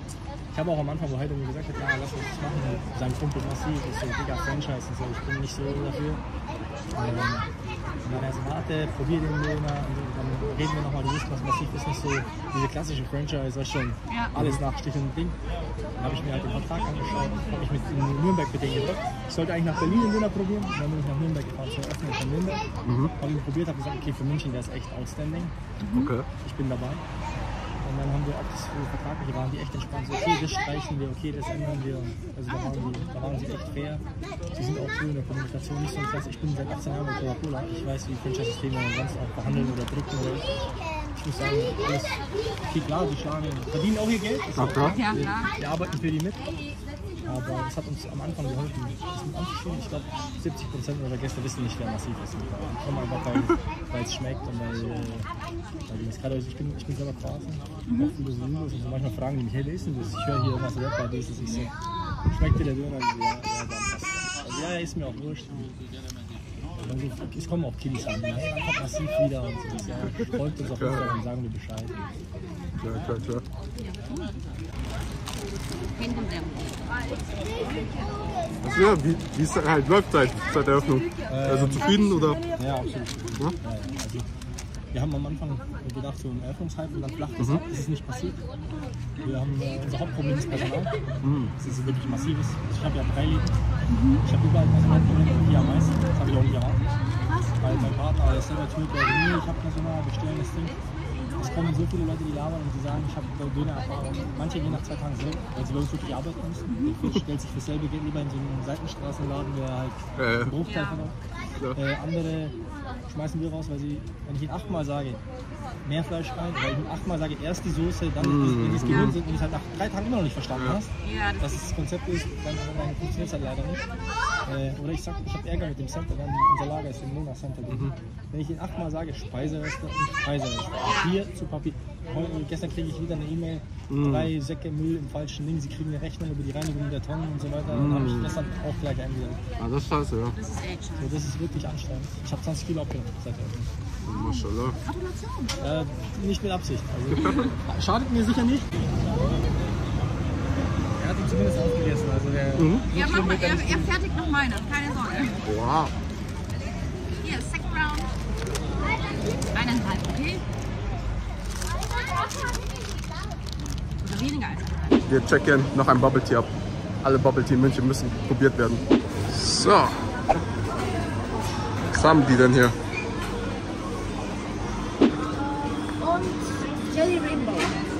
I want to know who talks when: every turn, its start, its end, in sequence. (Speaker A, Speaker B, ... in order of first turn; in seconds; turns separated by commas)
Speaker A: 0.5-6.2, Speaker A: 6.9-7.5, Speaker A: 8.0-15.4, Speaker B: 14.1-14.3, Speaker C: 14.3-14.6, Speaker A: 16.0-22.6, Speaker C: 22.8-23.1, Speaker A: 23.2-25.5, Speaker B: 25.8-26.1, Speaker C: 25.9-26.3, Speaker A: 26.4-27.0, Speaker A: 27.8-40.5, Speaker B: 39.4-39.8, Speaker A: 41.1-46.4, Speaker C: 44.5-45.0, Speaker B: 44.9-45.5, Speaker A: 47.2-55.3, Speaker A: 55.9-61.7, Speaker B: 57.9-58.1, Speaker A: 62.3-65.7, Speaker A: 66.8-72.0, Speaker C: 70.7-71.2, Speaker C: 72.8-73.4, Speaker B: 73.8-74.3, Speaker B: 75.9-76.8, Speaker C: 78.6-82.4, Speaker A: 81.3-84.3, Speaker C: 83.3-83.6, Speaker A: 84.9-88.4, Speaker C: 87.4-87.6, Speaker A: 89.2-90.9, Speaker C: 91.2-91.5, Speaker A: 91.6-93.5, Speaker B: 93.9-94.2, Speaker A: 94.2-96.8, Speaker A: 97.6-100.8, Speaker B: 97.6-97.9, Speaker A: 101.4-111.2, Speaker B: 106.7-107.0, Speaker C: 106.9-107.2, Speaker C: 110.2-110.6, Speaker B: 110.6-111.1, Speaker A: 111.7-115.2, Speaker A: 115.8-123.8, Speaker C: 118.2-119.2, Speaker B: 118.8-119.2, Speaker C: 120.5-120.8, Speaker B: 121.0-121.7, Speaker A: 124.4-139.4, Speaker C: 127.7-127.9, Speaker B: 130.8-131.2, Speaker C: 133.9-134.3, Speaker C: 137.7-138.3, Speaker C: 139.6-140.3, Speaker B: 140.3-141.2, Speaker A: 141.0-143.7, Speaker C: 144.0-144.8, Speaker B: 144.1-145.6, Speaker A: 145.6-148.7, Speaker C: 147.1-147.5, Speaker A: 151.0-153.9, Speaker C: 152.6-152.8, Speaker B: 152.9-155.4, Speaker C: 155.4-155.9, Speaker B: 157.2-158.1, Speaker B: 159.5-160.4, Speaker B: 164.0-165.1, Speaker C: 165.1-170.0, Speaker C: 171.9-172.8, Speaker B: 177.0-177.6